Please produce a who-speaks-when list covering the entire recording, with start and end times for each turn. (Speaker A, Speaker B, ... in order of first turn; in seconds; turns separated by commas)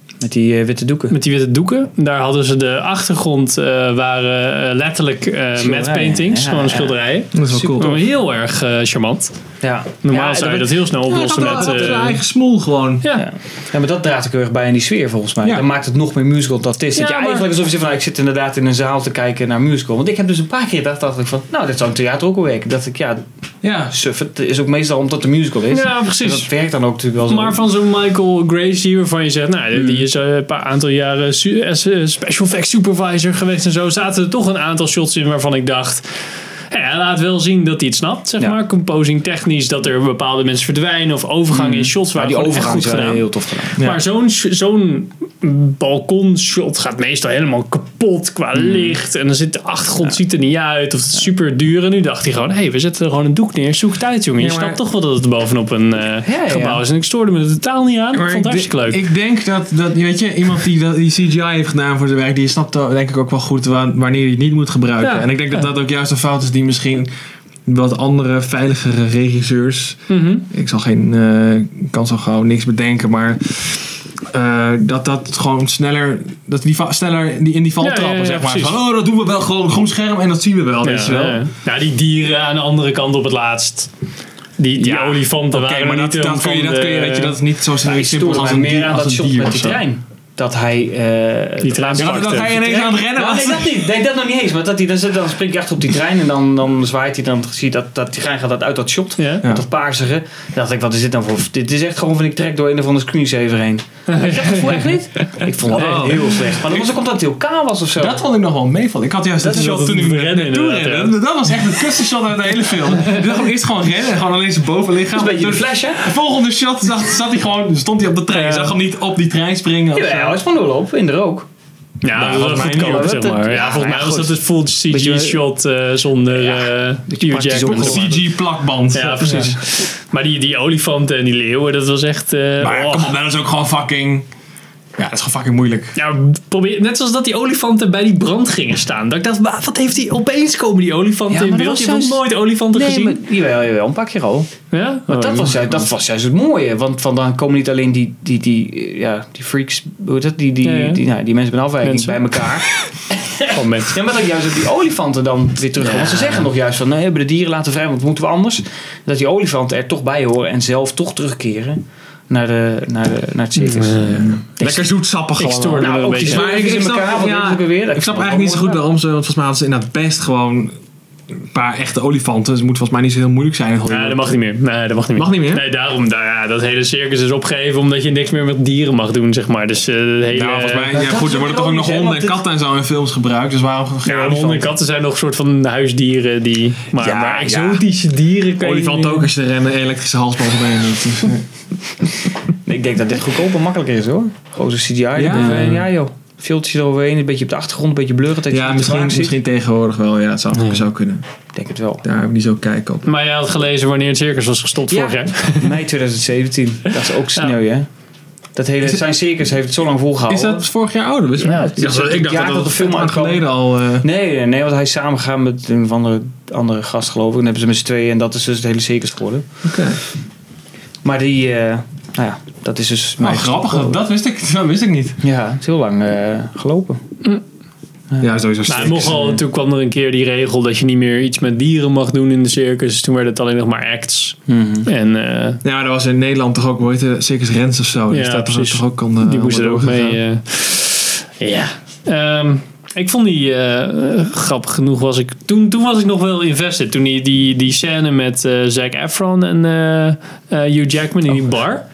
Speaker A: 0.2-1.1, Speaker B: 1.1-9.3, Speaker A: 5.6-7.9, Speaker C: 7.3-8.0, Speaker A: 9.6-12.1, Speaker B: 10.0-12.2, Speaker C: 11.1-13.1, Speaker A: 13.2-23.2, Speaker B: 16.9-17.5, Speaker C: 23.6-23.9, Speaker A: 23.9-27.6, Speaker B: 25.7-26.5, Speaker B: 27.3-36.0, Speaker B: 36.7-43.2, Speaker A: 41.5-43.8, Speaker C: 43.8-44.0, Speaker B: 43.8-59.0, Speaker A: 48.6-48.9, Speaker C: 54.4-54.8, Speaker A: 56.2-56.8, Speaker C: 58.1-67.1, Speaker B: 65.0-65.3, Speaker C: 67.7-81.4, Speaker B: 70.1-70.5, Speaker B: 77.8-78.7, Speaker B: 80.8-83.9, Speaker B: 84.6-87.4, Speaker C: 84.8-89.8, Speaker A: 87.8-108.2, Speaker B: 91.6-92.4, Speaker C: 91.9-93.9, Speaker B: 99.2-99.4, Speaker B: 104.1-106.3, Speaker C: 105.7-106.9, Speaker C: 108.0-120.4, Speaker A: 109.4-109.7, Speaker B: 109.4-111.2, Speaker A: 115.1-116.1, Speaker B: 118.3-118.8, Speaker A: 119.9-121.5, Speaker B: 122.0-128.1, Speaker C: 122.1-123.2, Speaker A: 122.7-125.4, Speaker A: 126.3-128.2, Speaker C: 127.6-129.5, Speaker B: 128.9-133.1, Speaker A: 129.2-129.6, Speaker C: 132.6-134.3, Speaker C: 135.0-136.0, Speaker B: 135.9-143.2, Speaker A: 141.3-144.6, Speaker B: 144.7-145.8, Speaker A: 145.1-152.7, Speaker B: 150.6-151.0, Speaker B: 151.8-152.2, Speaker A: 153.3-164.9, Speaker B: 153.4-153.9, Speaker B: 155.8-156.5, Speaker B: 163.6-164.4, Speaker C: 164.6-170.7, Speaker B: 165.4-166.5, Speaker A: 165.8-168.8, Speaker C: 171.3-174.3, Speaker B: 173.9-180.9, Speaker C: 175.1-175.6, Speaker C: 180.3-184.7, Speaker A: 180.9-182.4, Speaker B: 184.0-189.3, Speaker A: 187.0-187.8, Speaker C: 188.6-191.5, Speaker A: 192.6-199.3, Speaker C: 195.2-195.8, Speaker B: 195.3-195.8, Speaker C: 198.5-201.2, Speaker B: 200.5-200.8, Speaker A: 201.5-202.0, Speaker C: 202.0-203.1, Speaker B: 203.0-205.8, Speaker A: 204.9-207.9, Speaker A: 208.6-210.7, Speaker C: 210.3-214.1, Speaker A: 211.4-213.4, Speaker B: 211.4-211.8, Speaker A: 214.0-219.4, Speaker C: 219.6-220.0, Speaker A: 221.0-224.0, Speaker C: 223.2-225.2, Speaker A: 225.2-227.0, Speaker C: 228.2-229.4, Speaker B: 228.7-235.6, Speaker A: 234.5-234.9, Speaker C: 235.6-240.2, Speaker B: 238.1-251.8